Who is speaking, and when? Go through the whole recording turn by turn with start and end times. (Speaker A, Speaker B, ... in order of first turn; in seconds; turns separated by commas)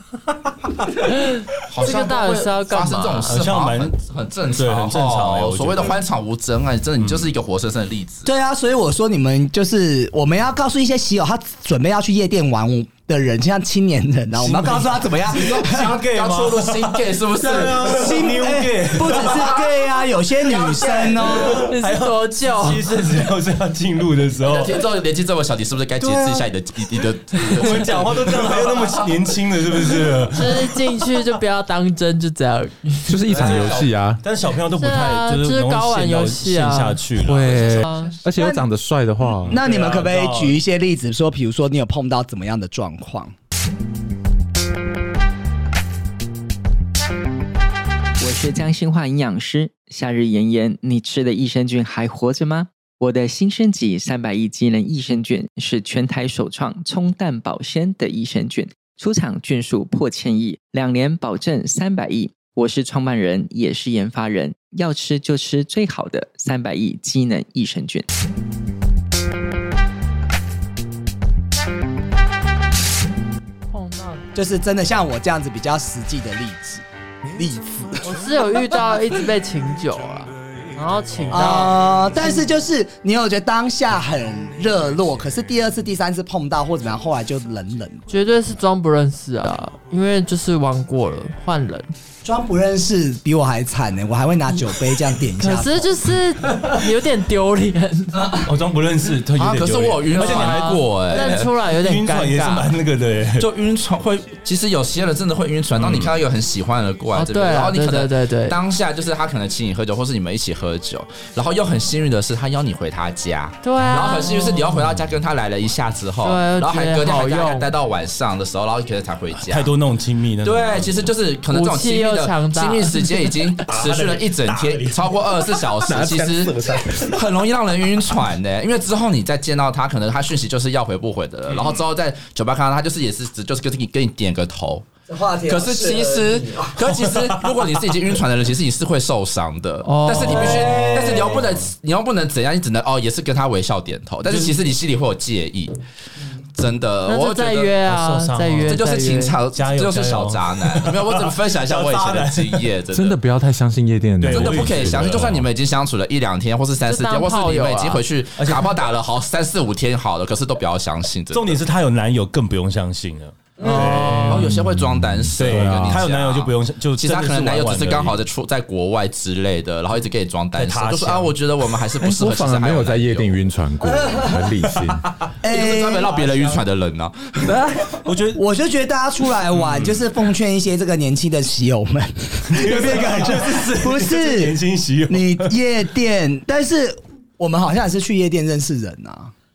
Speaker A: 1.0-3.4, Speaker B: 1.7-8.3, Speaker C: 3.3-4.0, Speaker C: 4.5-6.0, Speaker C: 7.0-7.3, Speaker D: 8.2-15.9, Speaker C: 14.3-15.1, Speaker B: 15.3-18.1, Speaker C: 15.7-19.6, Speaker D: 17.5-21.7, Speaker B: 19.3-19.6, Speaker B: 20.4-21.5, Speaker C: 21.3-24.8, Speaker A: 21.5-22.9, Speaker B: 24.4-29.1, Speaker C: 27.5-31.1, Speaker A: 30.3-33.3, Speaker E: 33.1-34.2, Speaker B: 33.3-33.9, Speaker C: 33.4-37.7, Speaker A: 34.7-37.0, Speaker E: 37.2-39.6, Speaker B: 37.4-38.2, Speaker A: 37.8-38.1, Speaker D: 38.4-38.6, Speaker C: 39.4-40.6, Speaker D: 39.5-43.3, Speaker F: 48.2-68.1, Speaker A: 73.7-74.2, Speaker D: 74.3-76.8, Speaker D: 77.3-78.1, Speaker A: 78.0-82.3, Speaker D: 81.3-88.0, Speaker A: 88.1-91.9, Speaker D: 92.2-95.9, Speaker A: 95.4-98.2, Speaker D: 98.2-98.5, Speaker C: 98.4-103.5, Speaker B: 99.3-101.5, Speaker A: 100.1-102.7, Speaker B: 103.4-119.7, Speaker C: 105.8-106.1, Speaker A: 107.1-108.6, Speaker A: 113.6-114.8, Speaker A: 116.2-117.7, Speaker C: 119.3-121.1, Speaker B: 120.4-134.9, Speaker A: 121.5-123.3, Speaker C: 123.6-125.2, Speaker E: 125.8-127.2, Speaker D: 135.1-136.8, Speaker B: 135.5-145.8, Speaker C: 136.8-137.7, Speaker A: 139.8-140.9, Speaker D: 140.2-141.5, Speaker C: 140.4-141.6, Speaker C: 144.3-144.6, Speaker B: 146.5-147.7, Speaker A: 147.1-149.3, Speaker C: 147.8-148.8, Speaker B: 148.7-153.2, Speaker C: 149.5-152.7, Speaker E: 152.9-155.4, Speaker C: 154.2-155.4, Speaker B: 154.3-161.6, Speaker A: 156.8-158.0, Speaker C: 158.4-158.8, Speaker C: 161.3-164.5, Speaker A: 163.6-164.4, Speaker D: 163.6-163.9, Speaker B: 163.7-173.3, Speaker E: 164.5-166.0, Speaker C: 165.4-168.2, Speaker C: 170.5-171.3, Speaker E: 172.0-175.0, Speaker D: 173.8-174.5, Speaker C: 174.8-175.3, Speaker D: 175.4-176.3, Speaker B: 175.4-177.5, Speaker E: 177.5-177.9, Speaker C: 178.0-178.4, Speaker D: 178.3-189.3, Speaker C: 179.5-180.1, Speaker C: 182.5-185.5